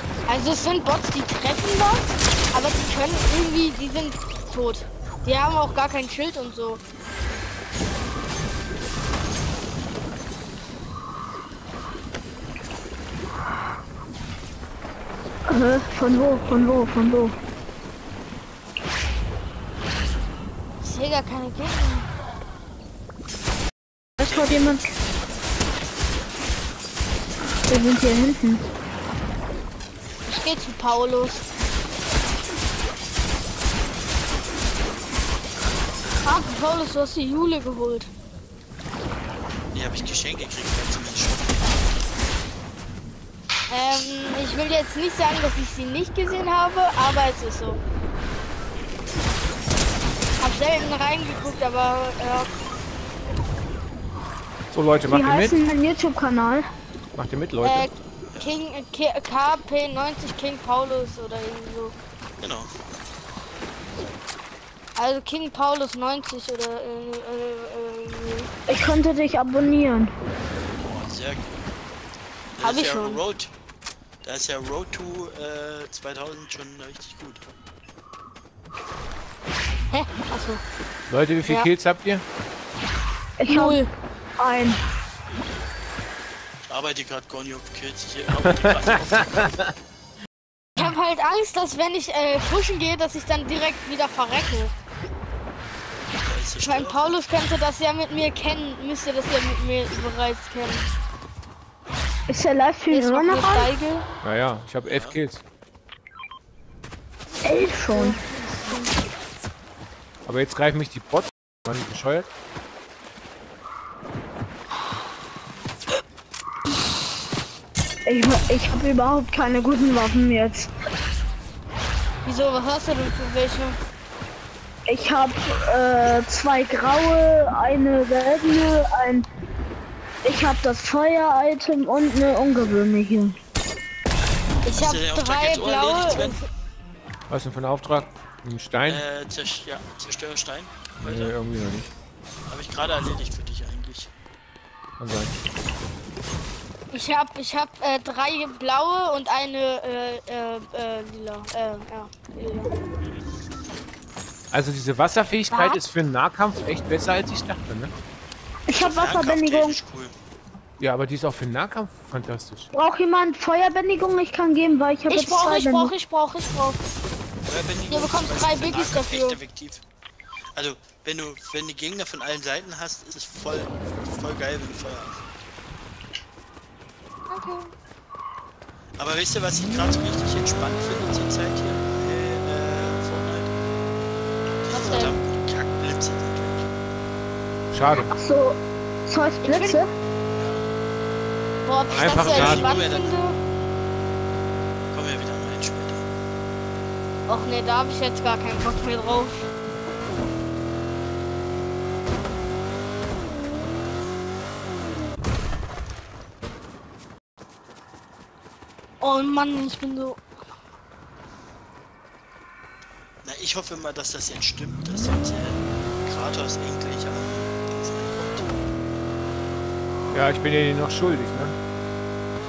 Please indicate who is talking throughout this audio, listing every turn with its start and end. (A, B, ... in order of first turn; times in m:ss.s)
0:00.3-0:06.8 A
0:15.5-0:17.4 B
0:20.8-0:22.1 A
0:24.2-0:24.9 B
0:24.2-0:24.8 C
0:27.7-0:28.6 B
0:30.3-0:31.4 A
0:36.2-0:38.1 A
0:39.7-0:41.8 C
0:43.7-0:47.8 A
0:50.4-0:52.5 A
0:54.7-0:55.6 D
0:55.0-0:56.7 B
0:57.2-0:57.9 D
0:57.6-1:02.0 A
1:02.4-1:02.7 C
1:05.0-1:08.5 A
1:08.7-1:10.1 B
1:10.8-1:11.5 C
1:12.6-1:13.5 C
1:12.6-1:13.2 A
1:14.2-1:17.4 C
1:19.9-1:20.6 A
1:21.1-1:22.2 D
1:23.4-1:23.8 B
1:23.5-1:23.9 A
1:24.4-1:24.8 B
1:26.7-1:29.5 C
1:28.5-1:29.7 D
1:30.8-1:34.7 A
1:36.2-1:37.2 C
1:36.6-1:40.8 A
1:42.3-1:43.7 B
1:42.9-1:44.0 A
1:44.2-1:45.4 D
1:44.8-1:45.2 C
1:47.4-1:48.2 B
1:47.9-1:49.0 A
1:50.3-1:52.3 D
1:58.1-2:00.7 B
2:02.2-2:03.8 A
2:04.9-2:09.3 B
2:10.2-2:13.4 B
2:14.6-2:16.4 A
2:14.8-2:16.4 C
2:17.3-2:19.0 D
2:18.8-2:21.4 C
2:21.0-2:21.9 D
2:22.5-2:24.1 C
2:25.0-2:25.3 D
2:26.9-2:32.7 A
2:34.5-2:37.9 D
2:35.5-2:35.8 A
2:38.7-2:39.8 B
2:38.7-2:40.2 C
2:40.8-2:42.7 D
2:42.7-2:45.9 B
2:45.1-2:46.8 A
2:47.4-2:49.8 C
2:47.9-2:49.4 A
2:50.6-2:55.2 C
2:57.3-2:57.7 A
2:59.0-3:03.5 C
3:04.6-3:06.7 C
3:04.7-3:05.2 A
3:07.7-3:08.1 D
3:08.1-3:09.9 B
3:09.4-3:09.8 A
3:10.4-3:10.6 C
3:11.7-3:13.4 A
3:11.9-3:13.2 C
3:12.0-3:12.7 D
3:14.9-3:16.0 C
3:17.3-3:19.4 A
3:29.0-3:30.2 A
3:33.2-3:38.5 C
3:40.1-3:41.6 D